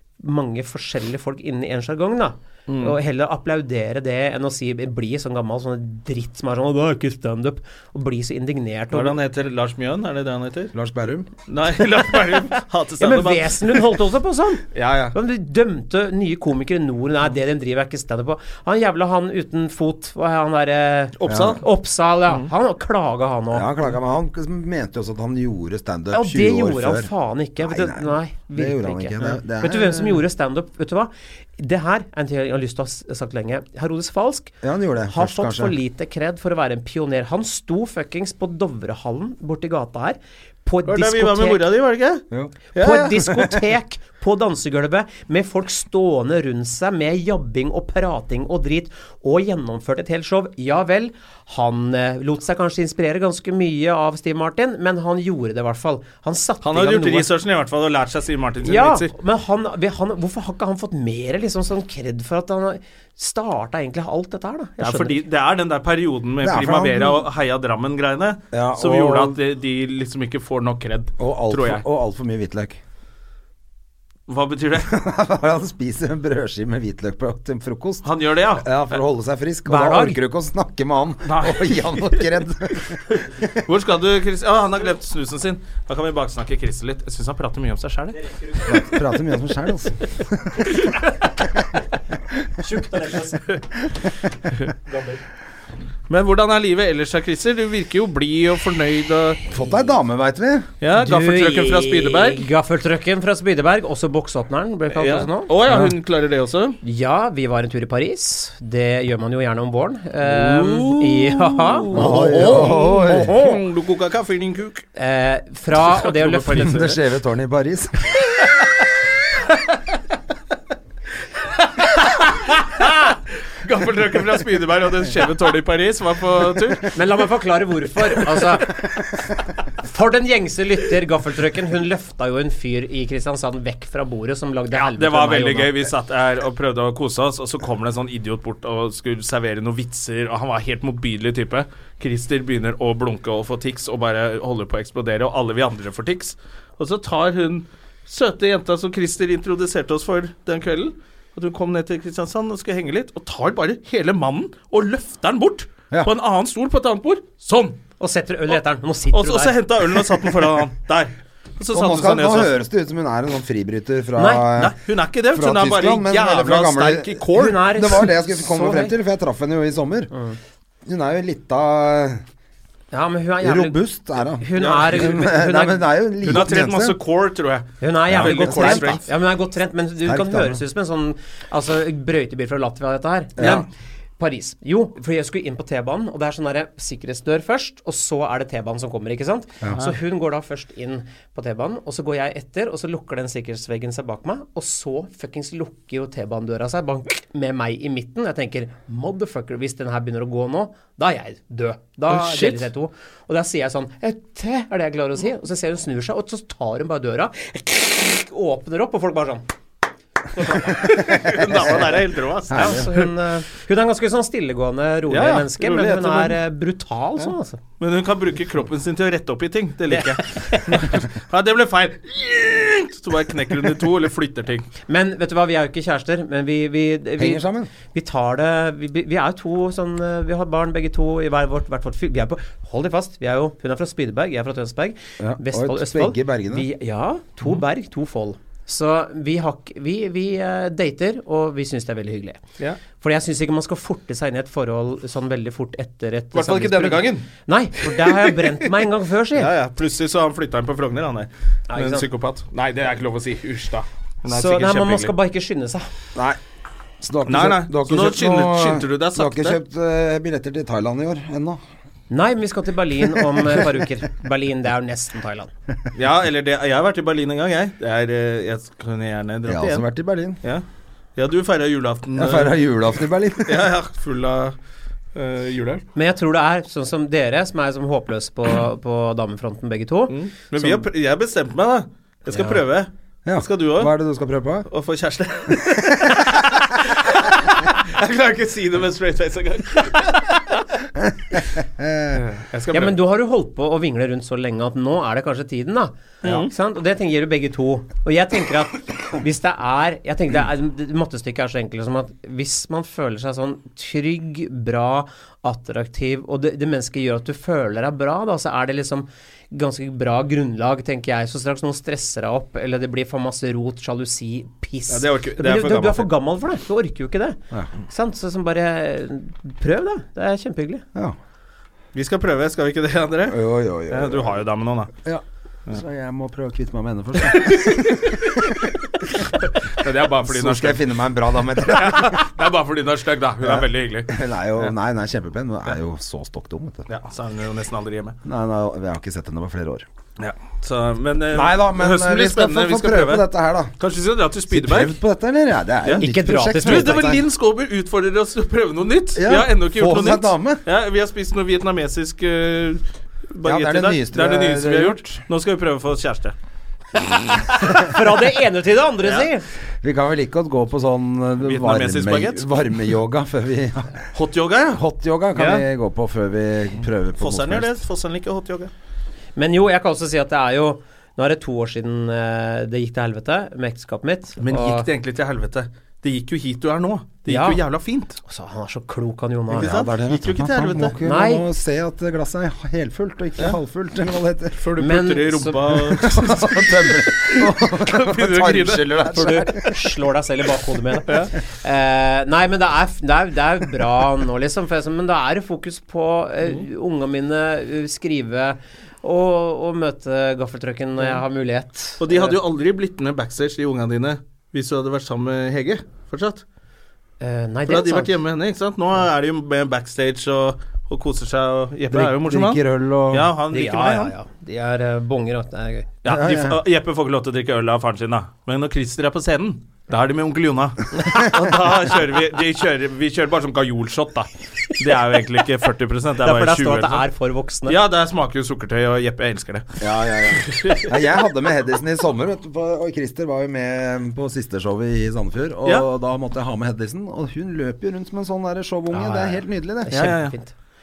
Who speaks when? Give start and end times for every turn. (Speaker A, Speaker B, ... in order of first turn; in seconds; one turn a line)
Speaker A: 0.2-9.2
Speaker B: 2.7-3.0
Speaker B: 8.9-10.7
Speaker C: 10.7-11.3
Speaker B: 11.5-14.0
Speaker A: 13.0-23.9
Speaker B: 14.7-15.1
Speaker B: 21.2-21.6
Speaker C: 21.3-21.6
Speaker C: 23.5-30.2
Speaker A: 26.1-34.5
Speaker C: 34.6-35.8
Speaker A: 35.1-41.6
Speaker B: 40.9-42.2
Speaker B: 42.7-43.5
Speaker A: 42.7-57.3
Speaker B: 56.6-59.1
Speaker A: 58.6-65.2
Speaker B: 64.8-71.8
Speaker C: 66.4-67.2
Speaker C: 68.5-69.3
Speaker C: 71.2-72.8
Speaker B: 74.3-74.9
Speaker C: 74.8-83.5
Speaker B: 78.0-78.8
Speaker A: 79.7-80.2
Speaker B: 81.2-82.2
Speaker B: 83.5-88.3
Speaker C: 88.7-90.7
Speaker A: 92.6-93.5
Speaker B: 96.1-99.4
Speaker C: 99.5-100.7
Speaker B: 100.8-102.5
Speaker A: 101.0-105.5
Speaker B: 104.9-106.8
Speaker C: 105.7-105.9
Speaker A: 106.8-113.6
Speaker B: 110.2-114.8
Speaker C: 111.9-113.3
Speaker A: 115.0-117.0
Speaker B: 115.7-116.9
Speaker C: 116.6-118.1
Speaker B: 118.3-118.8
Speaker B: 121.6-126.9
Speaker A: 126.9-128.8
Speaker A: 129.8-135.7
Speaker B: 134.7-157.8
Speaker A: 158.0-159.6
Speaker B: 159.1-162.5
Speaker C: 161.7-164.7
Speaker A: 164.2-164.4
Speaker B: 164.6-167.9
Speaker C: 165.3-170.1
Speaker A: 167.3-168.9
Speaker C: 170.8-172.2
Speaker A: 172.9-173.8
Speaker C: 173.4-177.0
Speaker A: 174.4-175.8
Speaker B: 174.6-175.1
Speaker B: 176.2-179.0
Speaker A: 177.8-183.7
Speaker C: 178.1-179.0
Speaker C: 180.0-180.6
Speaker C: 183.4-183.7
Speaker A: 184.2-209.4
Speaker B: 202.1-202.7
Speaker A: 210.4-210.8
Speaker B: 210.5-213.1
Speaker C: 212.5-212.9
Speaker A: 212.5-217.6
Speaker B: 215.1-216.4
Speaker B: 217.8-224.7
Speaker A: 219.9-220.9
Speaker A: 224.9-242.4
Speaker C: 227.2-227.7
Speaker C: 235.2-236.7
Speaker A: 243.0-249.5
Speaker B: 246.3-247.3
Speaker B: 247.8-248.7
Speaker B: 249.3-255.1
Speaker A: 251.7-252.1
Speaker A: 254.3-255.9
Speaker C: 257.0-261.6
Speaker B: 257.2-259.6
Speaker A: 262.1-265.5
Speaker B: 265.9-269.8
Speaker C: 269.4-270.4
Speaker B: 271.1-272.6
Speaker C: 272.1-273.7
Speaker B: 273.4-274.6
Speaker B: 275.1-275.8
Speaker A: 275.9-280.8
Speaker B: 280.1-283.9
Speaker C: 283.2-284.7
Speaker B: 284.6-290.6
Speaker C: 291.0-292.2
Speaker B: 292.1-293.0
Speaker A: 292.7-320.8
Speaker B: 296.2-296.5
Speaker B: 314.9-316.1
Speaker B: 321.9-324.9
Speaker C: 323.3-324.3
Speaker C: 325.0-328.7
Speaker B: 327.3-330.9
Speaker C: 330.2-332.3
Speaker B: 331.6-334.7
Speaker C: 333.4-336.9
Speaker B: 336.9-338.2
Speaker C: 338.2-339.9
Speaker B: 340.2-344.9
Speaker C: 341.3-343.7
Speaker C: 344.5-347.2
Speaker A: 346.0-347.1
Speaker B: 346.6-356.3
Speaker C: 349.1-350.6
Speaker C: 353.4-355.2
Speaker A: 357.6-359.4
Speaker C: 359.8-364.0
Speaker B: 361.4-362.5
Speaker B: 364.1-364.8
Speaker C: 364.7-367.8
Speaker B: 365.3-365.6
Speaker B: 367.2-368.7
Speaker A: 369.4-374.9
Speaker B: 374.4-378.2
Speaker A: 377.2-377.6
Speaker A: 378.2-379.8
Speaker B: 379.5-380.9
Speaker C: 379.5-384.6
Speaker A: 381.0-381.4
Speaker B: 384.6-389.2
Speaker A: 384.8-385.9
Speaker C: 385.9-389.7
Speaker A: 389.1-402.4
Speaker B: 391.1-391.3
Speaker B: 402.0-406.4
Speaker A: 407.2-408.1
Speaker B: 407.7-414.1
Speaker C: 411.9-413.3
Speaker A: 413.5-416.0
Speaker B: 416.0-427.0
Speaker C: 416.1-416.6
Speaker A: 426.2-427.8
Speaker B: 427.6-429.8
Speaker C: 429.8-440.1
Speaker B: 430.4-430.9
Speaker A: 438.9-440.5
Speaker B: 439.9-440.3